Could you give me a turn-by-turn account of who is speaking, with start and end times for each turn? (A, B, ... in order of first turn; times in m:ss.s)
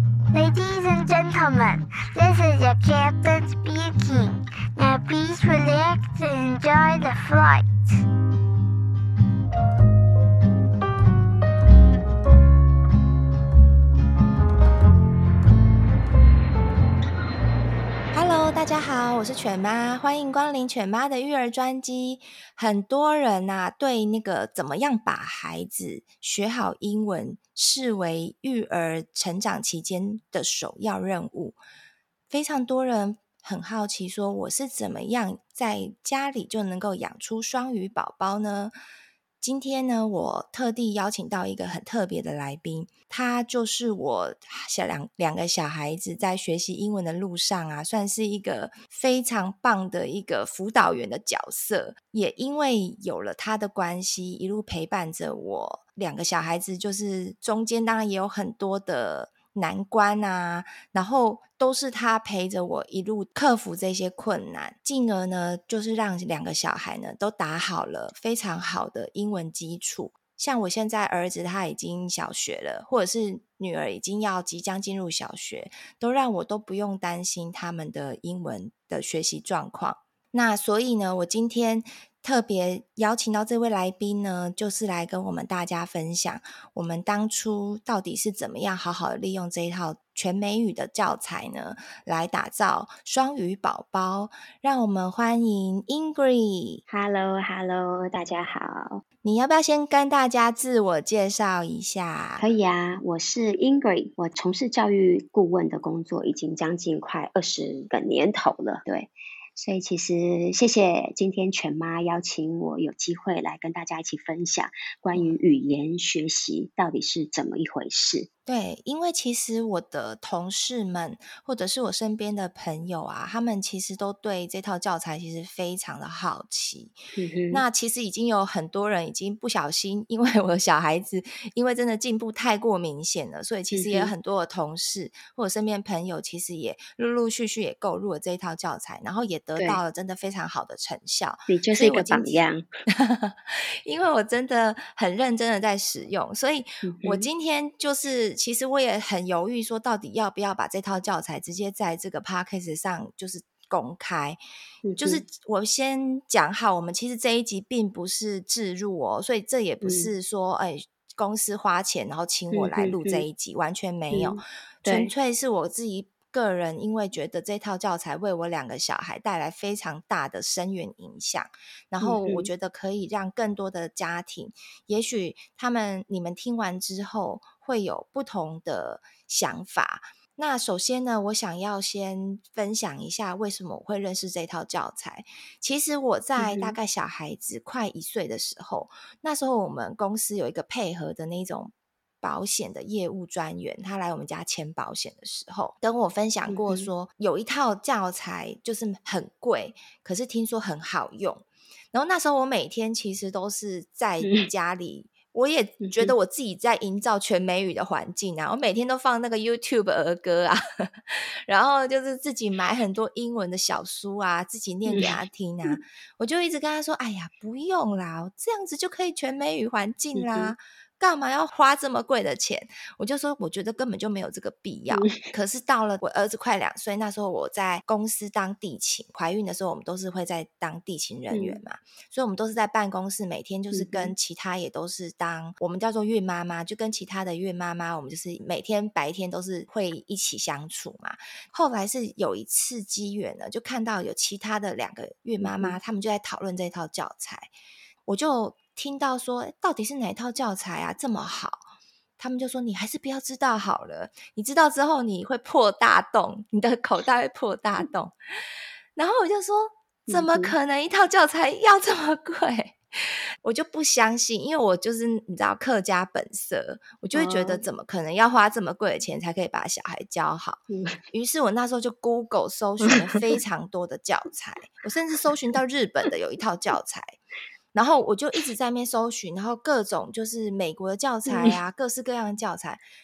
0:00.3-0:08.0 A
0:18.1-0:31.6 B
0:32.3-0:38.7 B
0:39.4-1:36.8 B
1:36.9-1:39.0 C
1:39.2-1:42.5 B
1:42.4-1:58.3 C
1:58.5-2:07.0 B
2:07.1-2:07.6 C
2:07.5-2:34.4 B
2:13.7-2:14.1 C
2:21.5-2:22.7 C
2:26.8-2:27.3 C
2:34.8-2:35.2 C
2:35.0-4:07.5 B
2:39.8-2:40.1 C
2:42.5-2:43.2 C
2:44.1-2:45.1 C
2:52.0-2:52.5 C
3:06.4-3:06.8 C
3:16.5-3:16.9 C
3:24.2-3:24.5 C
3:25.8-3:26.1 C
3:34.9-3:35.8 C
3:40.1-3:40.5 C
3:44.9-3:45.3 C
3:51.3-3:51.6 C
3:53.7-3:54.1 C
4:05.4-4:05.8 C
4:08.1-4:11.7 B
4:12.2-4:18.2 B
4:18.9-4:37.2 B
4:20.1-4:20.5 C
4:27.1-4:27.6 C
4:30.7-4:31.0 C
4:32.9-4:33.2 C
4:37.7-4:42.8 B
4:41.3-4:41.6 C